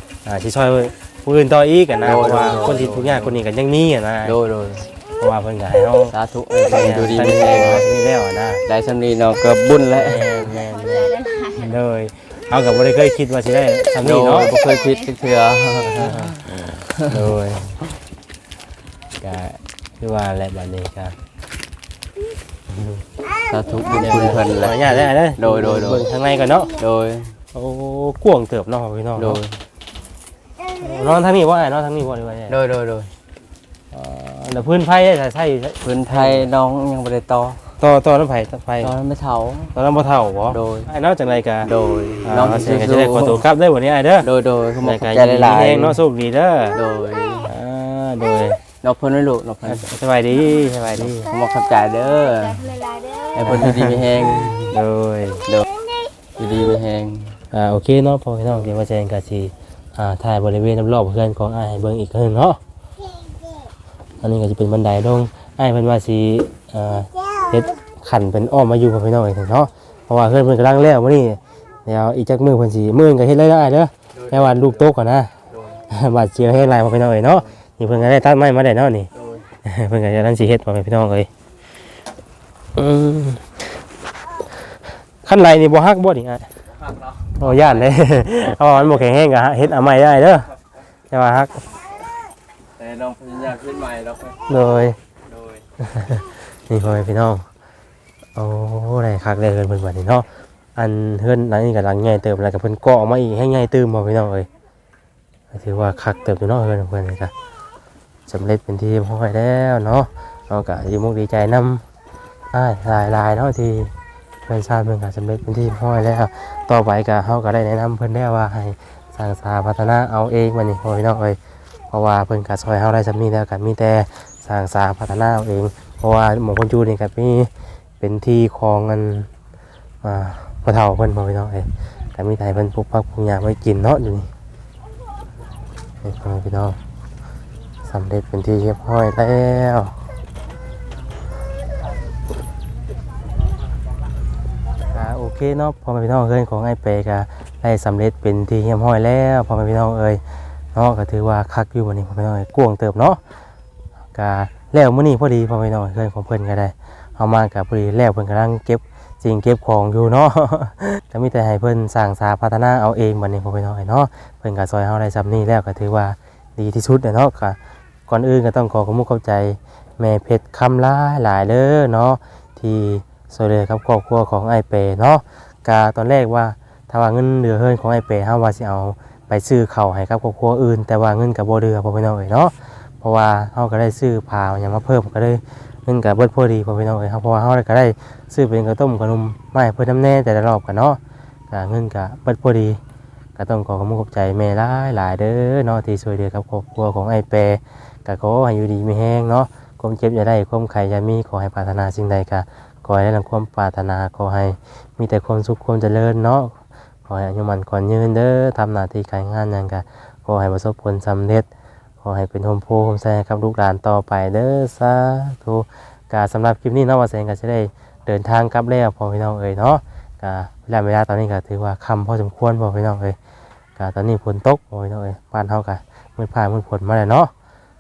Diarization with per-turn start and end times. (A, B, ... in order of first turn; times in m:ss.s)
0:00.2-0:04.4 A
0:02.0-0:03.4 B
0:04.2-0:05.0 B
0:05.2-0:06.2 A
0:06.1-0:07.9 B
0:06.7-0:08.6 A
0:08.7-0:10.3 B
0:09.9-0:14.6 A
0:10.6-0:11.7 C
0:14.0-0:16.4 B
0:15.8-0:17.8 A
0:19.2-0:21.2 A
0:22.7-0:23.0 A
0:23.4-0:26.1 B
0:23.9-0:26.8 A
0:26.7-0:27.4 B
0:27.5-0:29.4 A
0:29.2-0:29.6 B
0:30.8-0:32.6 A
0:32.5-0:33.1 B
0:33.9-0:36.5 A
0:35.8-0:37.7 B
0:37.8-0:38.9 A
0:38.8-0:39.8 B
0:39.8-0:41.7 A
0:40.5-0:40.9 B
0:41.6-0:43.4 B
0:42.2-0:44.3 A
0:44.2-0:46.0 B
0:44.8-0:46.8 A
0:46.7-0:47.5 B
0:47.5-0:48.6 A
0:48.7-0:50.0 B
0:49.6-0:51.3 A
0:51.2-0:52.7 B
0:52.2-0:53.4 C
0:53.4-0:54.8 B
0:53.5-0:55.5 A
0:56.4-0:57.4 B
0:57.5-1:02.6 A
1:04.2-1:19.1 A
1:14.1-1:14.9 B
1:15.5-1:15.8 B
1:19.2-1:19.5 B
1:19.6-1:21.3 A
1:22.8-1:23.7 A
1:25.2-1:26.5 A
1:27.4-1:30.6 A
1:27.4-1:28.0 B
1:31.1-1:31.7 A
1:32.8-1:34.5 B
1:34.5-1:35.0 A
1:35.8-1:37.5 A
1:38.4-1:44.5 A
1:45.5-1:47.3 A
1:48.3-1:51.8 A
1:52.5-1:53.9 A
1:54.4-2:01.4 A
2:01.9-2:09.3 A
2:10.0-2:14.3 A
2:16.0-2:16.8 A
2:17.8-2:20.0 A
2:24.8-2:33.2 A
2:34.1-3:12.8 A
3:13.4-3:31.5 A
3:32.0-3:43.2 A
3:43.8-3:47.3 A